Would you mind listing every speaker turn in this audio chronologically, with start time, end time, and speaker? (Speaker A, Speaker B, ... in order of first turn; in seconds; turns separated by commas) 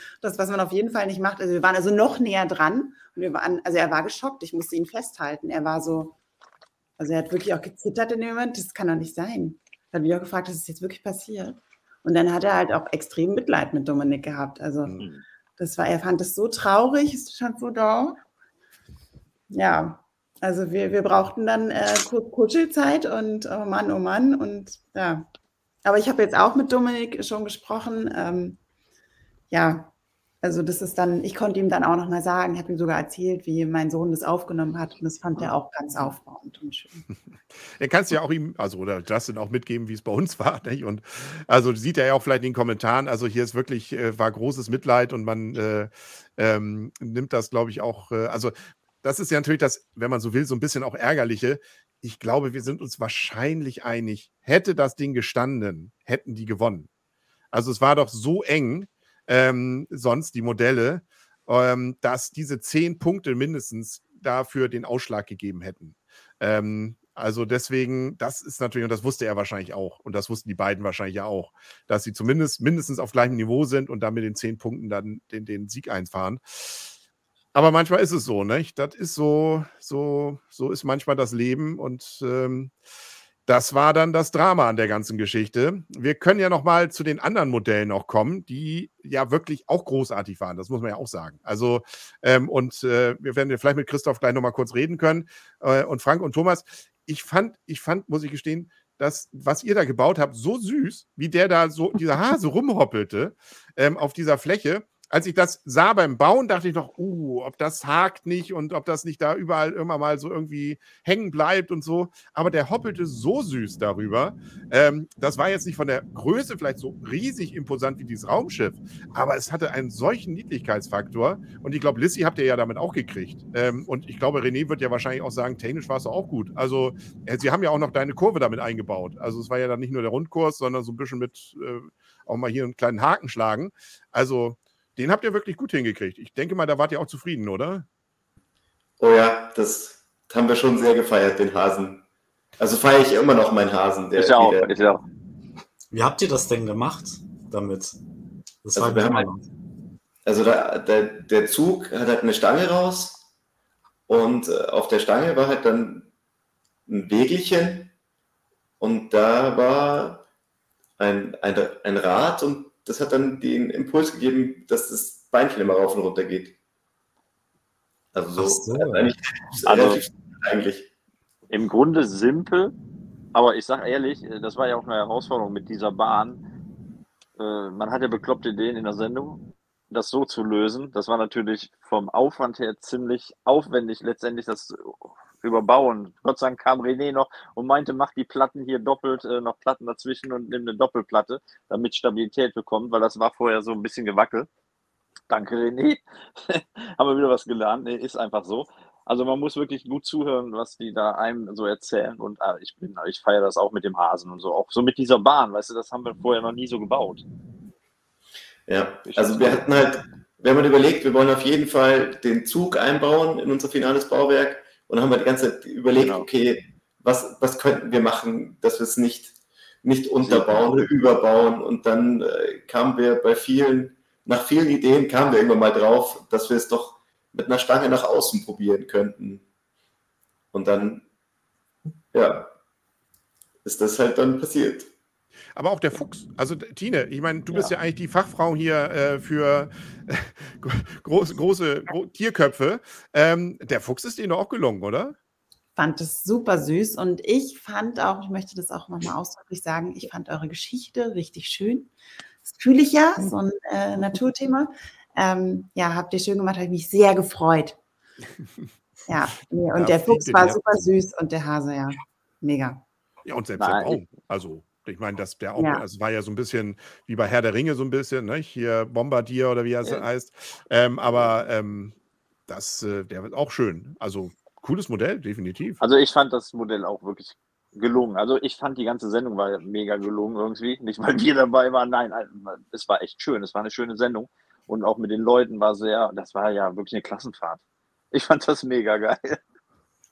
Speaker A: 0.2-6.2, Speaker A: 7.0-15.0, Speaker B: 14.9-15.2, Speaker A: 15.6-18.2, Speaker A: 19.5-25.3, Speaker A: 25.9-28.6, Speaker A: 29.5-29.9, Speaker A: 30.4-37.0, Speaker C: 37.8-56.9, Speaker C: 57.5-76.9, Speaker C: 77.5-82.7, Speaker C: 83.5-137.9, Speaker D: 139.0-142.0, Speaker D: 142.6-144.8, Speaker B: 144.2-145.0, Speaker E: 145.9-148.0, Speaker E: 148.6-149.4, Speaker D: 148.8-149.3, Speaker D: 150.3-153.2, Speaker D: 154.1-156.1, Speaker D: 156.9-157.9, Speaker D: 158.8-160.2, Speaker D: 161.0-166.5, Speaker D: 168.1-170.9, Speaker E: 168.4-169.2, Speaker B: 169.7-170.0, Speaker B: 171.5-172.8, Speaker B: 173.3-176.4, Speaker B: 177.4-179.4, Speaker B: 179.9-194.5, Speaker B: 195.3-207.2, Speaker D: 208.7-229.4, Speaker B: 209.1-209.7, Speaker B: 216.0-216.3, Speaker B: 220.2-220.9, Speaker D: 230.5-231.0, Speaker D: 232.1-232.5, Speaker D: 233.6-234.9, Speaker C: 235.6-245.2, Speaker A: 245.8-251.9, Speaker A: 252.6-257.8, Speaker A: 259.1-262.8, Speaker C: 259.7-260.6, Speaker C: 263.3-271.9, Speaker B: 263.6-264.0, Speaker A: 265.6-265.9, Speaker C: 272.5-275.8, Speaker B: 275.8-287.6, Speaker B: 288.1-289.4